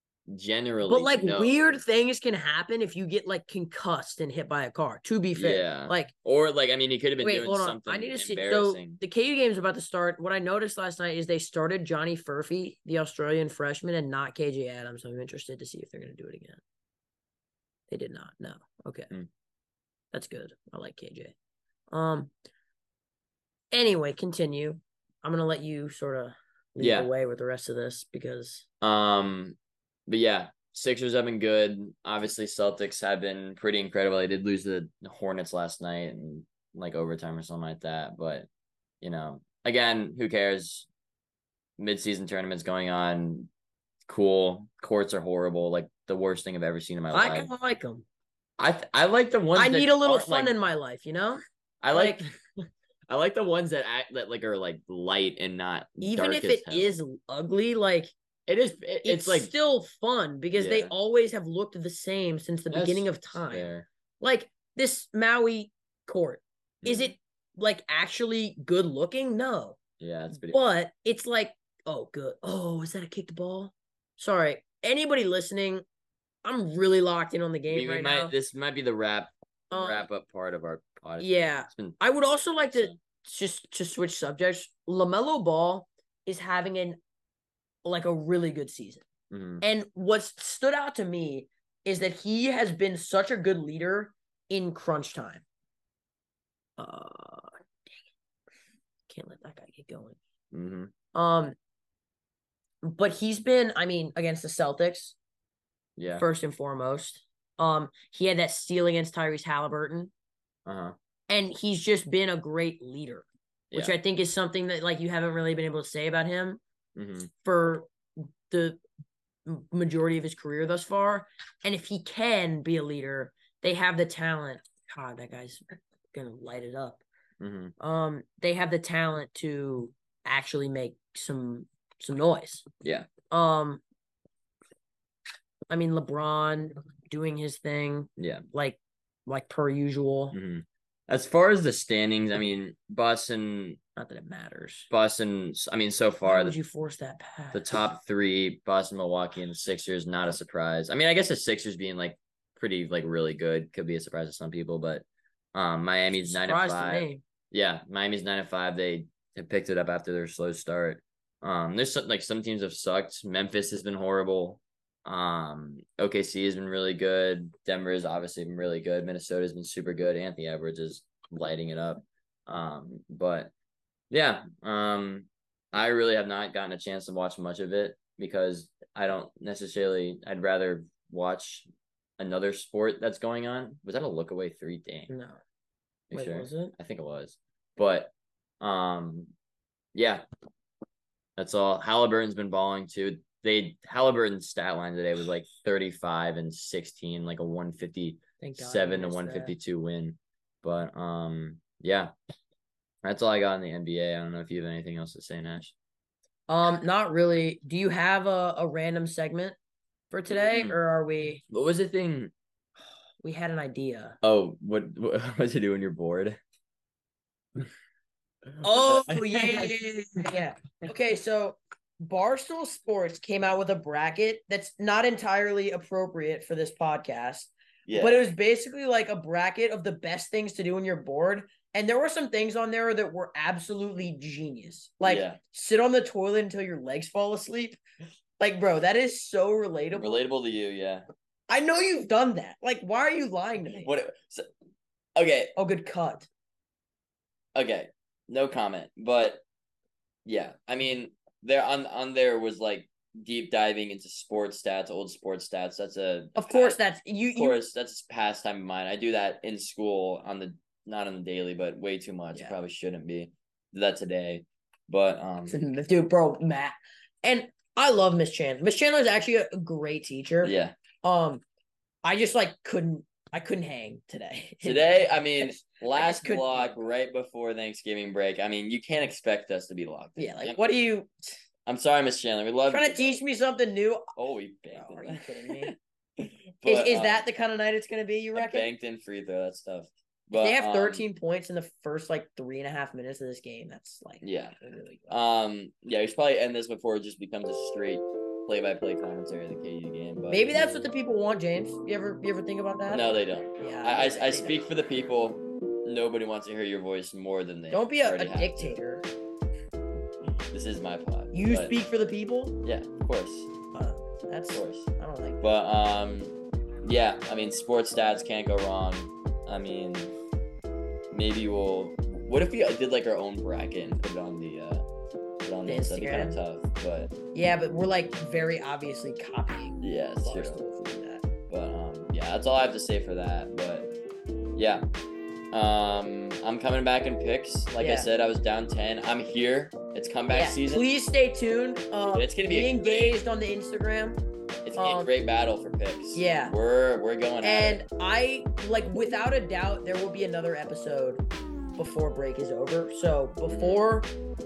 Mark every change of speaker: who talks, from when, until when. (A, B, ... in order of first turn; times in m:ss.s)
0:00.3-0:01.8 A
0:00.9-0:06.1 B
0:05.3-0:09.0 A
0:07.2-0:16.6 B
0:17.9-0:19.1 B
0:20.1-0:21.3 B
0:21.9-0:22.3 B
0:23.7-0:28.7 B
0:26.8-0:27.1 A
0:28.8-0:38.5 A
0:39.0-0:40.9 A
0:41.8-0:43.5 A
0:44.1-0:47.5 A
0:47.1-0:48.0 B
0:48.6-0:50.6 A
0:49.6-0:52.2 B
0:51.8-0:52.3 A
0:53.1-0:56.9 A
0:56.0-0:58.1 B
0:58.5-0:59.5 A
0:59.0-1:09.8 B
1:00.5-1:00.9 A
1:02.7-1:03.9 A
1:06.8-1:07.1 A
1:10.0-1:10.6 A
1:10.3-1:15.8 B
1:16.4-1:18.3 B
1:17.7-1:22.0 A
1:19.7-1:20.1 B
1:21.2-1:27.0 B
1:27.8-1:29.0 B
1:29.3-1:29.6 A
1:29.6-1:35.4 B
1:36.8-1:37.6 B
1:39.1-1:40.2 B
1:40.5-1:40.9 A
1:41.1-1:41.6 B
1:42.8-1:45.2 B
1:46.0-1:46.2 A
1:46.1-1:50.1 B
1:50.7-1:51.0 A
1:51.3-1:56.6 B
1:53.7-1:54.0 A
1:57.0-1:57.3 A
1:57.4-1:57.9 B
1:58.5-1:58.8 B
1:59.4-2:07.0 B
2:07.4-2:07.7 A
2:07.8-2:12.7 B
2:12.8-2:13.1 A
2:13.3-2:13.8 B
2:15.7-2:20.4 B
2:18.2-2:18.4 A
2:20.3-2:23.8 A
2:24.0-2:24.9 B
2:24.9-2:26.6 A
2:26.2-2:27.7 B
2:27.5-2:53.5 A
2:36.2-2:37.2 B
2:54.1-3:01.7 A
3:02.2-3:05.1 A
3:05.1-3:05.4 B
3:06.1-3:09.3 A
3:06.1-3:06.7 B
3:10.0-3:10.2 A
3:11.4-3:22.1 A
3:18.4-3:19.6 B
3:23.0-3:25.7 A
3:26.5-3:29.6 B
3:30.1-3:31.4 B
3:30.3-3:30.8 A
3:31.5-3:32.3 A
3:33.2-3:34.2 B
3:34.2-3:36.4 A
3:38.5-3:39.8 A
3:38.6-3:57.8 B
3:47.9-3:48.3 A
3:55.0-3:55.4 A
3:58.4-4:00.2 B
3:59.9-4:01.0 A
4:01.5-4:03.9 B
4:03.7-4:04.5 A
4:05.2-4:05.5 A
4:05.6-4:06.3 B
4:07.6-4:09.4 A
4:10.2-4:16.8 A
4:16.4-4:17.6 B
4:17.4-4:25.6 A
4:25.5-4:31.4 B
4:30.4-4:30.8 A
4:32.0-4:36.8 B
4:34.6-4:40.6 A
4:40.2-4:41.3 B
4:41.7-4:43.2 A
4:42.7-4:44.1 B
4:44.2-4:47.2 A
4:44.7-4:45.7 B
4:46.6-4:48.7 B
4:48.4-4:51.0 A
4:50.3-4:55.1 B
4:54.2-4:54.6 A
4:55.1-5:00.6 A
5:00.3-5:04.6 B
5:02.9-5:08.8 A
5:07.7-5:09.0 B
5:10.5-5:11.7 A
5:11.3-5:12.6 B
5:12.6-5:13.5 A
5:13.7-5:15.4 B
5:14.5-5:14.9 A
5:15.4-5:20.1 A
5:21.1-5:24.8 A
5:25.4-5:27.1 A
5:25.7-5:26.4 B
5:27.3-5:31.3 B
5:29.8-5:30.6 A
5:31.5-5:33.9 A
5:34.6-5:34.9 A
5:35.5-5:40.9 A
5:37.8-5:38.1 B
5:40.3-5:44.2 B
5:42.1-5:43.2 A
5:44.6-5:47.8 A
5:44.8-5:45.1 B
5:46.1-5:46.5 B
5:47.4-5:51.2 B
5:51.8-5:54.1 B
5:53.5-5:53.8 A